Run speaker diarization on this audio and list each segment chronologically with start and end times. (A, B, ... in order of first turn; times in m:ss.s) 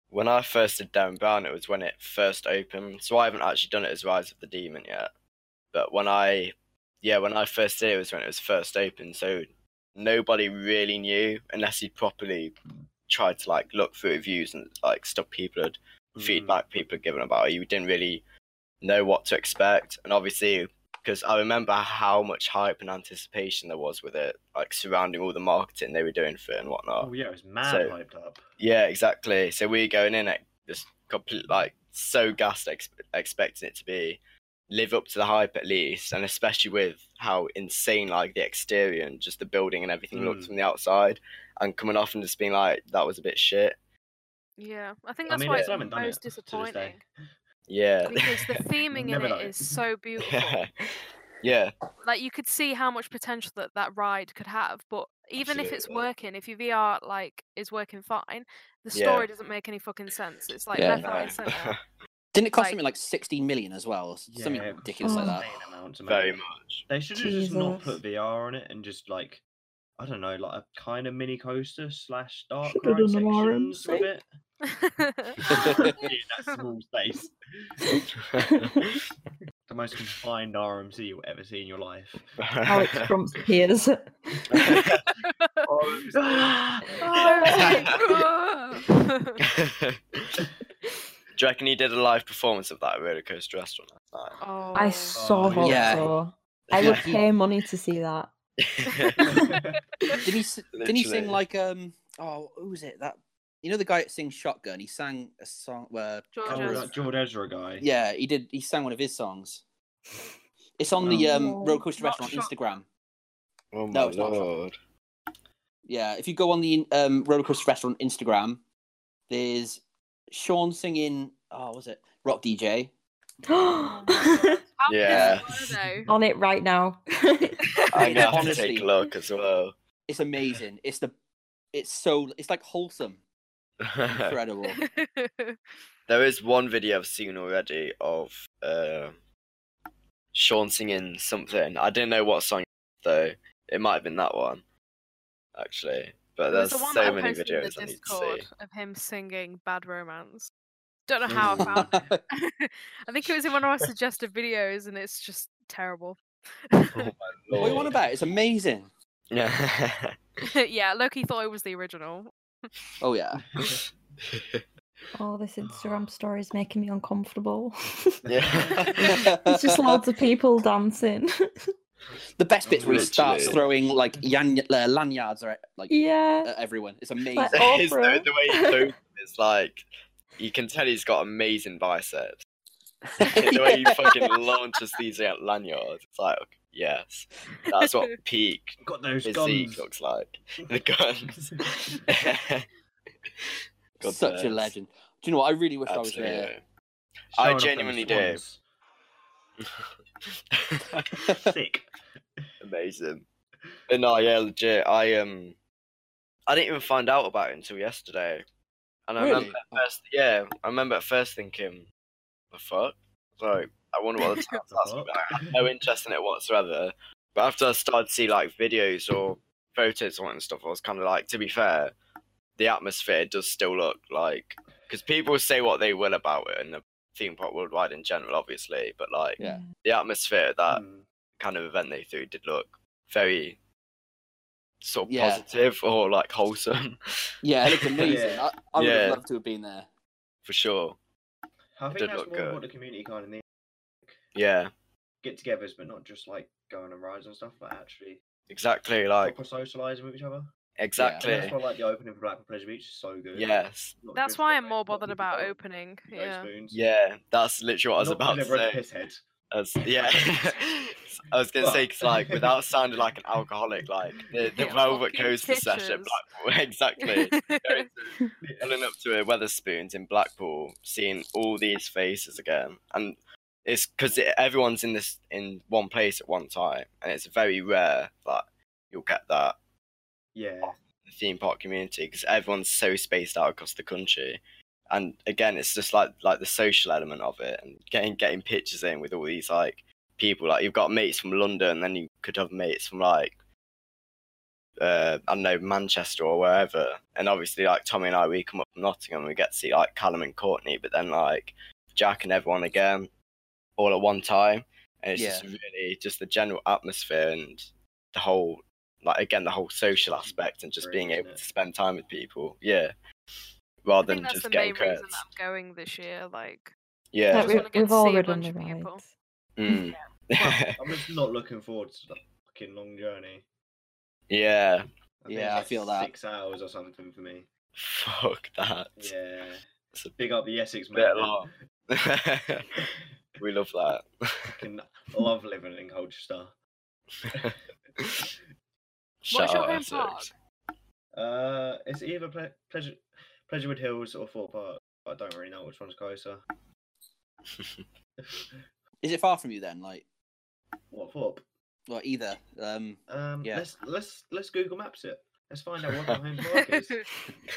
0:00.1-0:05.1 A
0:05.7-0:12.6 A
0:13.1-0:18.2 A
0:16.2-0:16.6 B
0:18.8-0:27.1 A
0:27.0-0:28.4 B
0:27.6-0:27.9 A
0:28.6-0:43.8 A
0:40.1-0:40.5 B
0:44.6-0:47.0 C
0:45.3-0:47.0 B
0:45.5-0:45.8 A
0:47.7-0:48.6 A
0:48.1-0:50.6 C
0:48.9-0:49.7 B
0:50.2-0:51.7 A
0:52.0-1:01.7 C
0:55.4-0:56.0 A
0:58.9-0:59.3 A
1:00.8-1:01.1 D
1:00.8-1:01.8 A
1:02.3-1:05.5 D
1:02.5-1:02.8 C
1:04.3-1:09.4 B
1:05.0-1:05.4 E
1:06.0-1:06.8 A
1:07.1-1:08.0 E
1:10.0-1:14.2 B
1:12.7-1:14.1 E
1:14.7-1:16.7 C
1:15.5-1:17.8 B
1:15.7-1:15.9 D
1:17.9-1:18.8 E
1:18.2-1:19.0 A
1:19.7-1:22.3 B
1:22.4-1:23.1 A
1:22.6-1:24.8 E
1:24.5-1:25.0 A
1:24.8-1:25.6 C
1:25.6-1:26.5 A
1:25.8-1:27.0 B
1:27.0-1:28.0 E
1:27.1-1:29.4 C
1:27.2-1:28.0 A
1:29.4-1:30.4 A
1:31.4-1:34.4 A
1:34.4-1:35.2 C
1:34.7-1:38.3 E
1:35.1-1:36.1 B
1:35.6-1:36.1 D
1:36.7-1:37.1 A
1:36.8-1:37.2 D
1:38.6-1:39.4 A
1:39.0-1:40.2 C
1:39.2-1:39.8 B
1:40.1-1:41.4 A
1:40.2-1:46.9 D
1:46.3-1:46.9 C
1:46.4-1:47.9 B
1:47.8-1:49.6 D
1:50.8-1:52.8 D
1:51.0-1:51.3 B
1:51.1-1:51.8 E
1:52.0-1:52.5 C
1:53.7-1:54.8 A
1:53.9-1:54.5 D
1:55.9-1:58.6 D
1:59.3-2:02.9 D
2:03.5-2:04.6 E
2:03.9-2:06.1 C
2:04.2-2:04.6 B
2:04.9-2:05.5 A
2:05.1-2:05.4 D
2:06.1-2:07.6 E
2:07.9-2:08.3 C
2:07.9-2:09.7 A
2:08.0-2:08.9 D
2:10.1-2:11.1 D
2:11.7-2:13.2 D
2:13.8-2:14.3 A
2:14.1-2:14.8 D
2:14.7-2:15.6 C
2:16.1-2:19.2 A
2:20.3-2:24.6 A
2:25.5-2:28.4 A
2:26.5-2:30.5 C
2:31.1-2:37.1 C
2:31.3-2:32.1 B
2:31.3-2:31.8 A
2:31.8-2:32.2 D
2:36.9-2:38.0 A
2:37.5-2:38.9 D
2:39.3-2:40.4 A
2:40.4-2:42.7 C
2:43.0-2:43.5 D
2:43.5-2:43.8 B
2:43.6-2:44.6 A
2:45.1-2:48.2 E
2:45.6-2:46.1 B
2:48.2-2:49.1 A
2:48.4-2:48.9 B
2:49.1-2:50.0 D
2:49.4-2:51.5 E
2:52.4-2:57.6 D
2:52.6-2:54.2 B
2:52.8-2:53.6 A
2:55.9-2:56.5 E
2:57.3-2:58.8 E
2:57.5-2:59.9 A
3:00.4-3:02.4 A
3:03.1-3:04.3 D
3:03.2-3:12.7 A
3:07.6-3:08.1 C
3:08.8-3:09.9 B
3:11.2-3:11.7 B
3:13.4-3:14.7 A
3:14.0-3:16.5 D
3:15.8-3:16.6 A
3:17.3-3:18.4 A
3:17.3-3:18.6 B
3:19.6-3:21.2 A
3:21.3-3:22.5 B
3:22.6-3:23.2 A
3:23.9-3:25.6 A
3:26.5-3:28.4 A
3:29.1-3:31.9 A
3:29.2-3:29.8 D
3:32.5-3:41.9 A
3:34.2-3:34.6 C
3:34.7-3:35.7 B
3:42.6-3:50.8 A
3:49.4-3:49.7 D
3:49.4-3:49.7 E
3:50.7-3:51.0 B
3:51.4-3:53.6 A
3:54.8-3:59.2 A
3:55.1-3:55.4 D
3:57.4-3:59.9 D
3:58.0-3:58.4 B
4:00.4-4:01.0 A
4:01.8-4:03.4 B
4:01.9-4:02.6 A
4:04.3-4:04.7 A
4:05.2-4:08.2 B
4:08.5-4:09.4 A
4:09.2-4:10.5 B
4:10.8-4:11.6 A
4:11.0-4:11.3 D
4:11.2-4:15.6 B
4:13.3-4:14.0 A
4:14.1-4:16.5 C
4:16.1-4:16.8 B
4:16.7-4:18.8 A
4:18.0-4:19.2 B
4:19.5-4:39.6 A
4:19.8-4:20.6 B
4:21.6-4:22.6 B
4:23.8-4:24.5 B
4:24.6-4:26.2 C
4:27.0-4:27.8 C
4:28.4-4:28.7 B
4:40.3-4:40.8 B
4:41.1-4:53.4 A
4:54.8-5:03.1 A
5:03.8-5:12.9 A
5:05.1-5:05.5 D
5:10.1-5:11.4 B
5:13.8-5:15.2 A
5:14.0-5:16.7 C
5:17.1-5:17.6 A
5:17.3-5:19.1 E
5:17.3-5:19.0 C
5:19.6-5:21.1 A
5:19.7-5:20.1 C
5:20.4-5:23.4 B
5:24.3-5:24.8 A
5:25.2-5:27.5 B
5:25.3-5:26.1 D
5:27.8-5:29.1 A
5:29.0-5:31.5 B
5:30.9-5:32.9 A
5:33.4-5:34.6 A
5:34.6-5:36.5 B
5:37.2-5:38.2 A
5:39.2-5:40.3 A
5:39.3-5:40.3 C
5:41.1-5:46.4 B
5:47.5-5:47.8 A
5:48.2-5:48.5 B
5:49.0-5:50.0 D
5:50.9-5:51.4 B
5:51.9-5:53.7 D
5:53.1-5:57.1 B
5:56.5-5:57.1 C